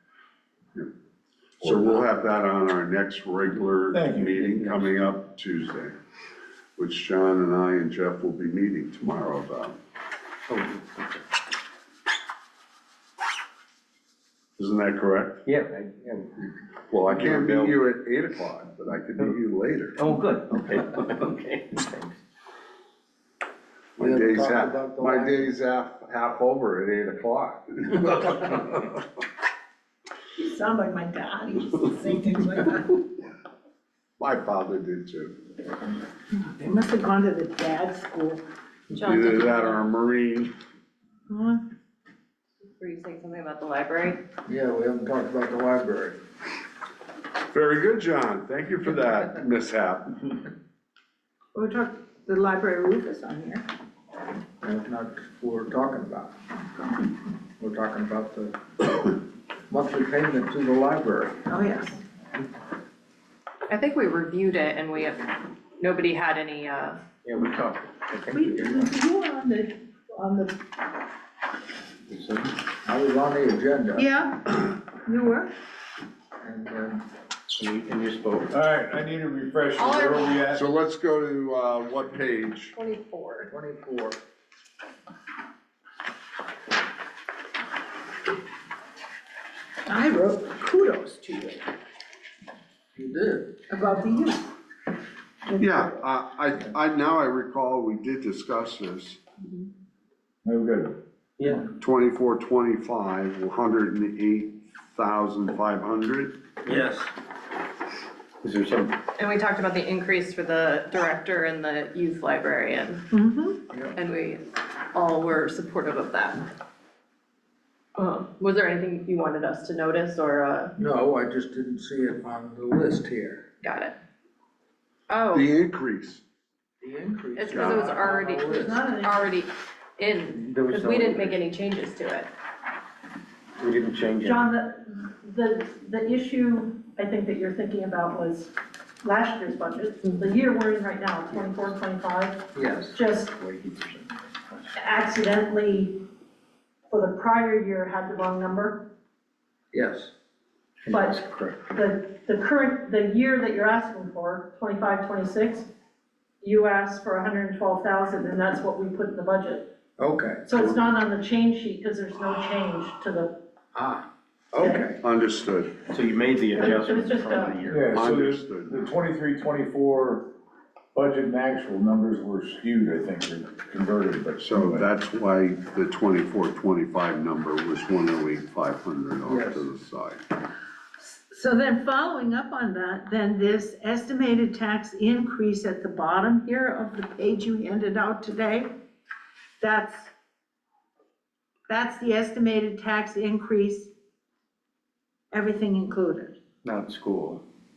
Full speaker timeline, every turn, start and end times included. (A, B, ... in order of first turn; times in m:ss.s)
0:01.6-0:05.9 A
0:03.9-0:04.4 B
0:04.4-0:04.8 C
0:06.8-0:09.7 A
0:10.5-0:11.2 C
0:14.6-0:15.4 A
0:15.4-0:16.5 C
0:16.9-0:20.0 A
0:17.2-0:17.8 C
0:20.0-0:22.2 C
0:24.0-0:28.9 A
0:24.0-0:25.5 D
0:30.4-0:33.0 E
0:34.2-0:35.4 A
0:36.3-0:38.4 E
0:38.9-0:39.8 F
0:39.0-0:40.5 A
0:41.3-0:41.6 E
0:42.7-0:44.2 F
0:44.4-0:46.2 D
0:47.5-0:50.3 A
0:51.5-0:53.6 E
0:54.6-0:56.3 D
0:57.6-0:59.2 D
0:59.7-1:01.4 D
1:01.4-1:02.0 E
1:03.7-1:07.0 F
1:07.2-1:08.8 C
1:08.3-1:10.6 E
1:12.1-1:12.5 C
1:12.8-1:14.1 D
1:14.0-1:15.5 E
1:16.4-1:17.0 D
1:17.6-1:18.5 C
1:18.5-1:20.6 B
1:19.8-1:20.4 F
1:20.5-1:22.7 A
1:22.7-1:23.5 F
1:23.5-1:24.2 D
1:29.9-1:31.6 E
1:33.0-1:33.6 D
1:33.7-1:34.5 E
1:35.5-1:36.0 E
1:35.6-1:39.2 A
1:40.4-1:41.0 B
1:41.4-1:41.7 C
1:41.8-1:46.4 A
1:46.6-1:47.1 C
1:48.4-1:49.0 C
1:49.2-1:53.0 F
1:53.1-1:53.6 E
1:53.9-1:56.5 F
1:58.0-2:00.7 F
2:00.8-2:03.4 D
2:03.6-2:03.9 F
2:05.1-2:05.5 F
2:05.3-2:06.2 A
2:06.8-2:08.9 D
2:07.3-2:12.3 F
2:07.5-2:07.9 A
2:08.4-2:09.3 E
2:10.3-2:11.4 C
2:13.6-2:14.5 C
2:14.2-2:23.3 G
2:22.5-2:23.0 D
2:23.3-2:24.0 C
2:24.8-2:26.0 G
2:26.9-2:28.9 G
2:29.7-2:30.1 D
2:30.8-2:31.8 C
2:30.9-2:31.2 G
2:31.7-2:35.7 G
2:36.4-2:39.7 G
2:40.0-2:40.7 D
2:40.4-2:43.4 G
2:43.7-2:45.0 D
2:44.6-2:44.9 G
2:45.0-2:45.8 A
2:45.8-2:48.0 C
2:46.5-2:47.6 G
2:47.7-2:50.3 B
2:47.8-2:48.9 A
2:50.9-2:54.9 B
2:54.4-3:00.2 A
2:59.2-2:59.7 D
3:01.0-3:08.7 E
3:09.6-3:10.1 E
3:11.7-3:13.9 E
3:15.3-3:16.3 E
3:16.6-3:17.4 C